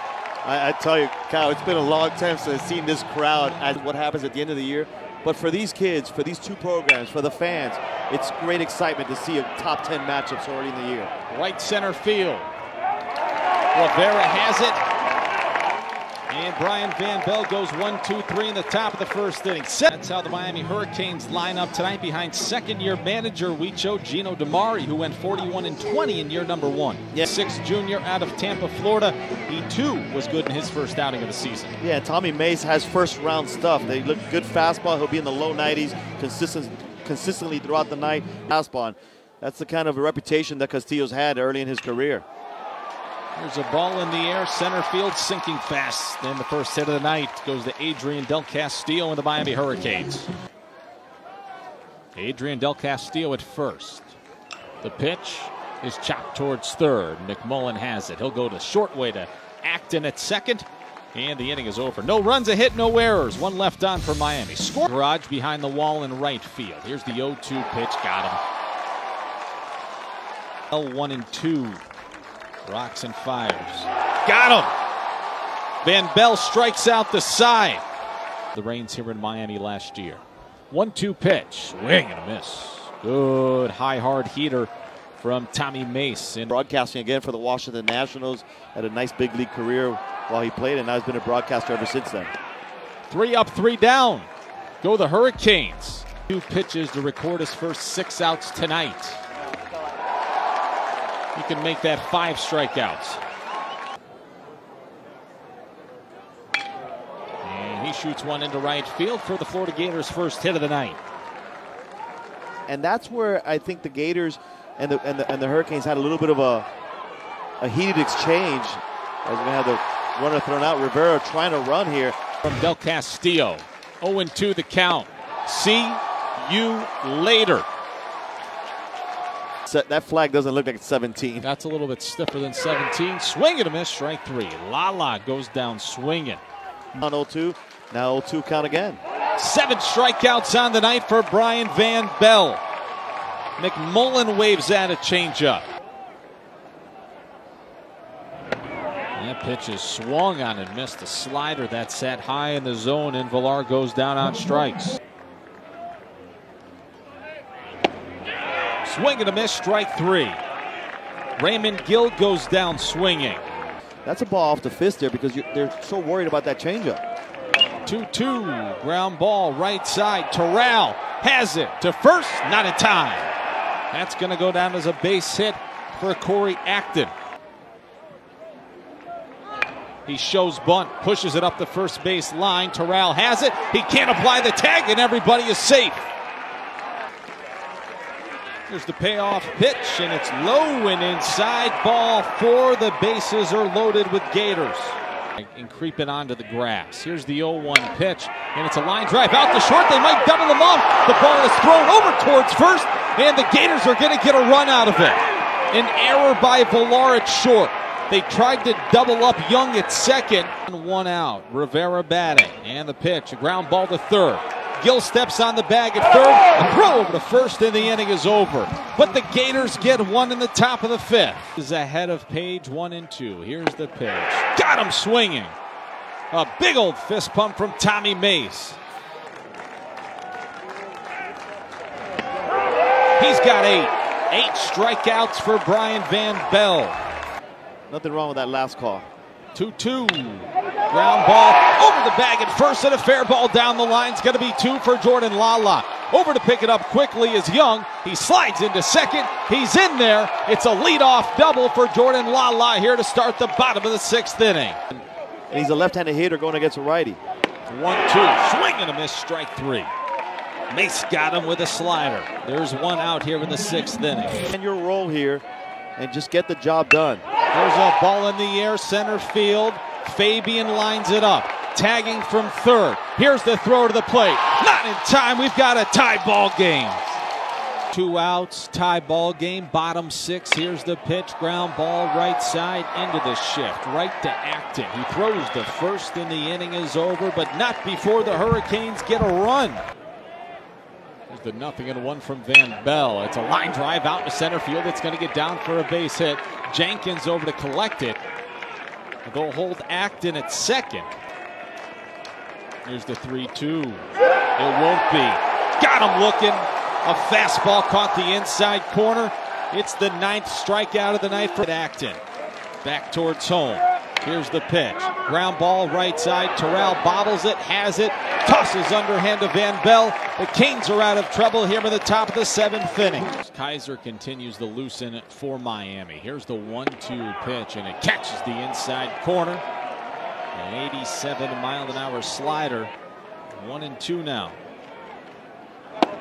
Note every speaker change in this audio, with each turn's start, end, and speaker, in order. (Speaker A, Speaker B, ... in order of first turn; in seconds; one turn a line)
Speaker A: 0.5-11.1
Speaker B: 11.3-12.5
Speaker B: 13.7-14.8
Speaker B: 16.3-31.8
Speaker A: 31.8-42.2
Speaker B: 43.3-50.3
Speaker B: 52.1-54.1
Speaker B: 54.8-68.4
Speaker B: 70.7-71.8
Speaker B: 72.7-74.7
Speaker B: 75.8-77.8
Speaker B: 78.5-86.5
Speaker A: 86.5-92.3
Speaker B: 93.1-94.3
Speaker B: 94.8-99.2
Speaker B: 101.3-103.2
Speaker B: 107.4-111.0
Speaker A: 112.7-116.7
Speaker A: 117.6-122.2
Speaker B: 122.4-127.7
Speaker A: 129.7-131.4
Speaker B: 131.4-136.4
Speaker A: 136.9-139.0
Speaker B: 139.4-142.6
Speaker B: 143.6-145.7
Speaker B: 149.2-155.0
Speaker B: 158.8-160.4
Speaker B: 161.4-163.4
Speaker A: 164.0-167.0
Speaker B: 167.8-173.3
Speaker B: 173.9-177.1
Speaker B: 180.1-186.1
Speaker B: 188.7-225.6
Speaker B: 226.3-228.8
Speaker B: 233.2-237.0
Speaker A: 237.9-239.1
Speaker B: 239.5-255.0
Speaker A: 255.5-257.2
Speaker B: 257.7-259.9
Speaker B: 260.7-264.4
Speaker A: 264.5-265.4
Speaker A: 266.0-267.2
Speaker B: 267.5-277.2
Speaker B: 277.9-289.8
Speaker B: 291.3-298.2
Speaker B: 299.2-301.1
Speaker B: 302.8-312.2
Speaker B: 312.8-329.6
Speaker B: 330.5-332.9
Speaker B: 333.6-334.6